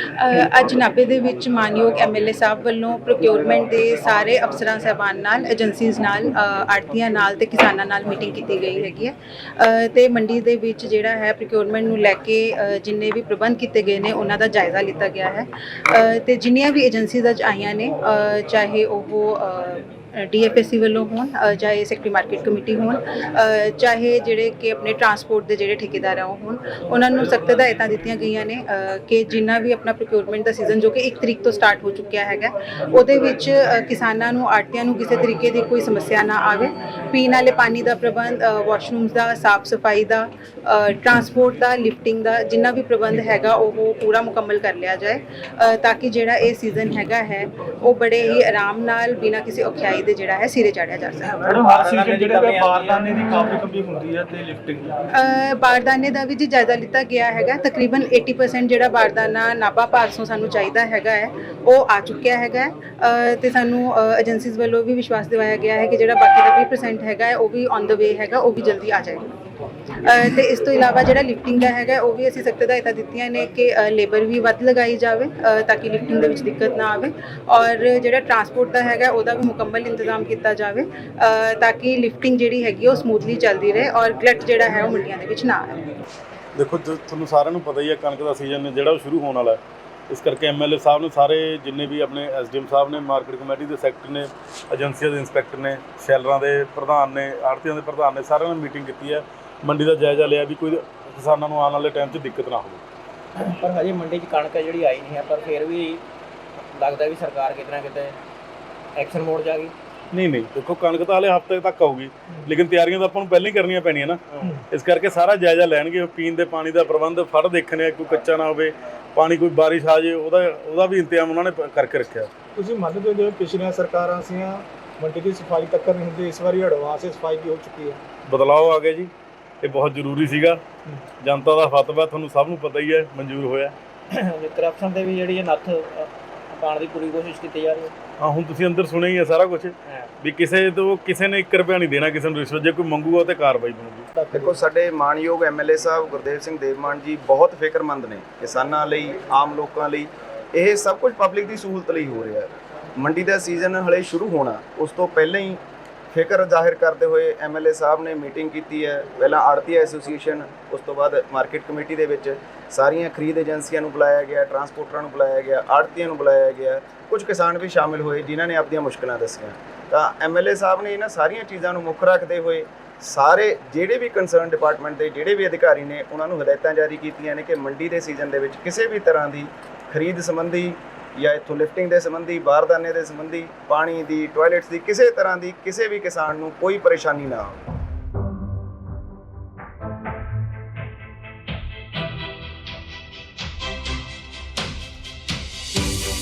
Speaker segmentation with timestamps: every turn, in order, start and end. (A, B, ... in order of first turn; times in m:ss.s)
0:00.2-0:51.5 A
0:51.4-0:53.6 B
0:51.5-0:54.9 C
0:55.1-1:09.3 A
1:10.0-1:25.8 A
1:26.6-1:29.6 D
1:30.1-1:42.8 D
1:43.4-1:46.0 B
1:46.7-1:48.2 B
1:49.0-1:49.7 B
1:50.1-2:02.3 D
2:02.6-2:08.0 C
2:08.3-2:09.1 D
2:09.6-2:10.6 D
2:11.2-2:13.7 D
2:14.1-2:17.9 B
2:18.2-2:24.0 D
2:24.1-2:24.6 C
2:24.3-2:35.6 E
2:36.1-3:07.6 E